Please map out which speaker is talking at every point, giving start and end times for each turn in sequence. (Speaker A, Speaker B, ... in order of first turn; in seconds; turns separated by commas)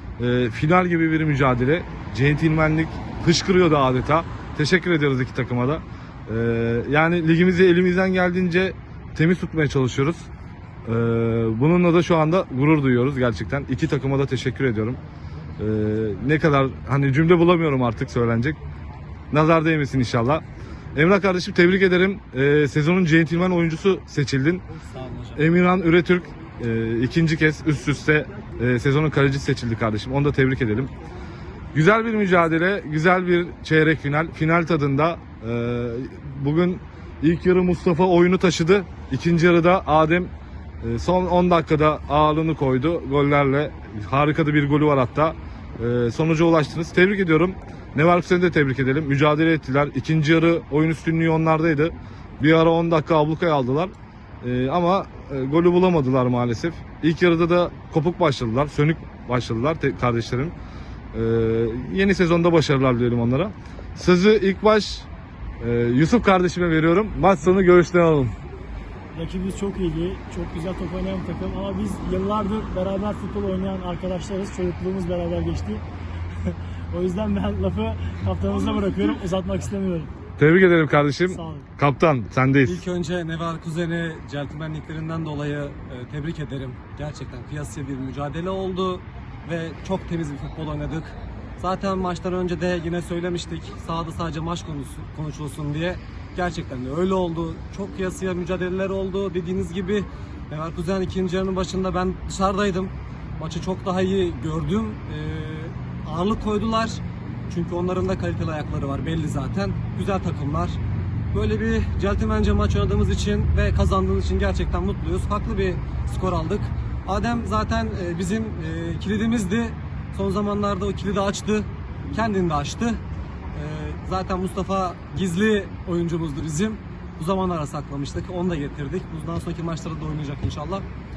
Speaker A: 0.2-10.3, Speaker A: 10.8-15.0, Speaker A: 15.6-18.6, Speaker A: 19.3-20.4, Speaker A: 20.9-24.6, Speaker B: 24.7-25.4, Speaker A: 25.4-30.9, Speaker A: 31.7-40.3, Speaker A: 40.8-60.5, Speaker A: 61.1-65.1, Speaker A: 65.6-68.3, Speaker C: 69.1-75.8, Speaker C: 76.5-80.1, Speaker B: 78.5-79.2, Speaker A: 80.4-82.8, Speaker C: 81.3-81.7, Speaker B: 82.7-110.8, Speaker B: 111.3-123.0, Speaker B: 123.5-130.9